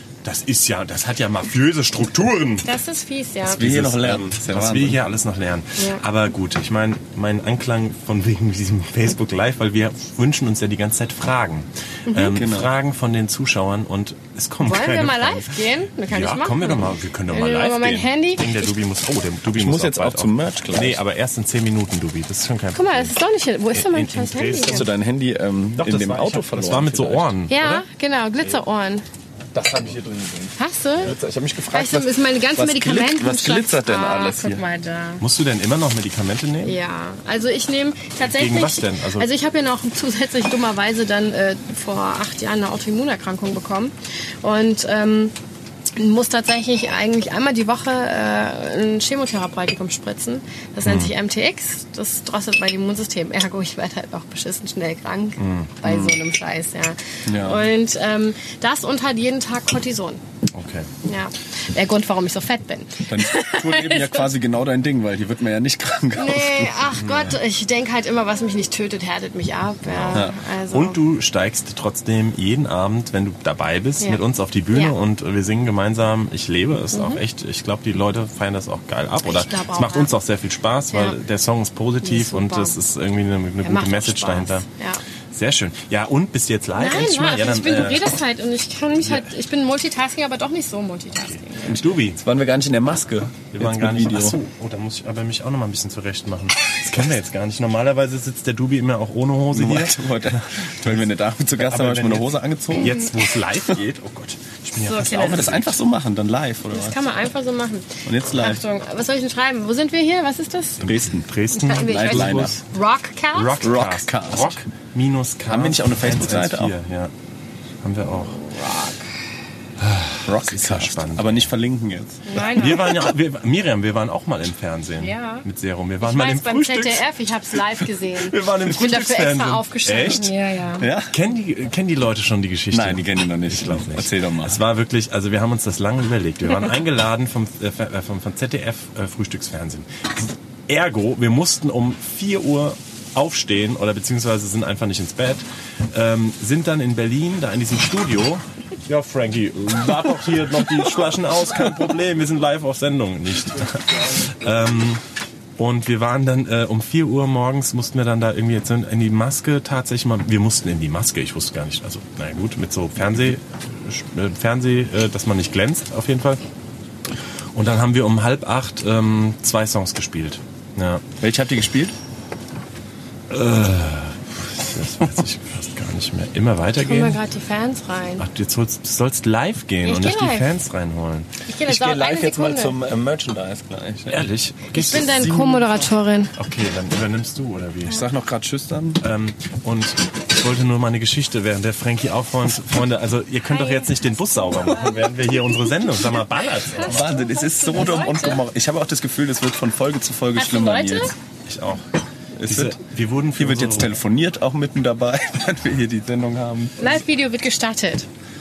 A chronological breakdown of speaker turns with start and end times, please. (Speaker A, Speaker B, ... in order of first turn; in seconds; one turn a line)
Speaker A: 0.2-2.7
Speaker B: 2.6-3.6
Speaker C: 3.5-5.0
Speaker A: 3.5-23.1
Speaker B: 12.1-12.4
Speaker C: 12.3-12.7
Speaker B: 14.6-18.6
Speaker C: 19.6-21.0
Speaker B: 22.7-24.9
Speaker A: 23.7-24.9
Speaker C: 24.6-27.3
Speaker A: 25.8-27.8
Speaker B: 27.5-29.1
Speaker C: 29.5-34.6
Speaker B: 30.6-31.2
Speaker B: 31.7-35.2
Speaker A: 35.2-36.8
Speaker B: 36.6-45.3
Speaker A: 38.2-39.3
Speaker B: 46.0-60.2
Speaker A: 50.9-51.1
Speaker A: 55.4-56.2
Speaker C: 57.3-57.6
Speaker A: 60.5-60.9
Speaker B: 61.0-64.3
Speaker C: 63.1-66.8
Speaker B: 66.2-71.0
Speaker A: 67.0-67.3
Speaker A: 69.8-84.7
Speaker B: 76.9-77.2
Speaker B: 79.2-80.1
Speaker B: 82.0-82.8
Speaker B: 83.6-85.0
Speaker A: 85.3-88.1
Speaker B: 86.8-91.8
Speaker A: 89.0-89.3
Speaker A: 91.2-92.2
Speaker C: 92.2-94.4
Speaker A: 93.5-100.5
Speaker C: 99.5-103.0
Speaker A: 101.6-105.7
Speaker B: 104.8-105.6
Speaker C: 105.1-107.0
Speaker B: 106.7-110.8
Speaker C: 108.0-108.6
Speaker C: 110.8-111.3
Speaker A: 110.8-112.6
Speaker B: 111.5-113.7
Speaker C: 111.8-112.5
Speaker A: 113.3-117.1
Speaker C: 113.6-114.6
Speaker C: 115.5-116.7
Speaker A: 117.8-118.4
Speaker B: 118.2-119.1
Speaker A: 119.8-121.5
Speaker C: 120.2-122.3
Speaker B: 122.3-123.0
Speaker A: 122.5-127.1
Speaker B: 125.0-125.5
Speaker B: 126.0-130.9
Speaker A: 128.1-130.3
Speaker C: 130.8-131.1
Speaker A: 131.1-155.0
Speaker C: 132.7-134.6
Speaker A: 155.6-166.4
Speaker A: 167.6-171.0
Speaker C: 171.2-171.9
Speaker A: 173.3-177.2
Speaker B: 176.8-178.2
Speaker A: 178.2-181.3
Speaker B: 179.8-180.5
Speaker B: 181.5-182.8
Speaker C: 181.7-184.2
Speaker A: 184.1-185.7
Speaker B: 184.7-186.3
Speaker C: 185.1-185.5
Speaker A: 186.4-188.0
Speaker C: 187.9-189.0
Speaker A: 189.0-196.9
Speaker B: 193.5-193.9
Speaker B: 194.6-195.0
Speaker C: 196.8-201.1
Speaker B: 196.8-198.4
Speaker B: 200.3-201.1
Speaker A: 201.5-201.8
Speaker C: 202.4-202.8
Speaker A: 202.4-203.9
Speaker C: 203.3-207.0
Speaker B: 206.8-208.1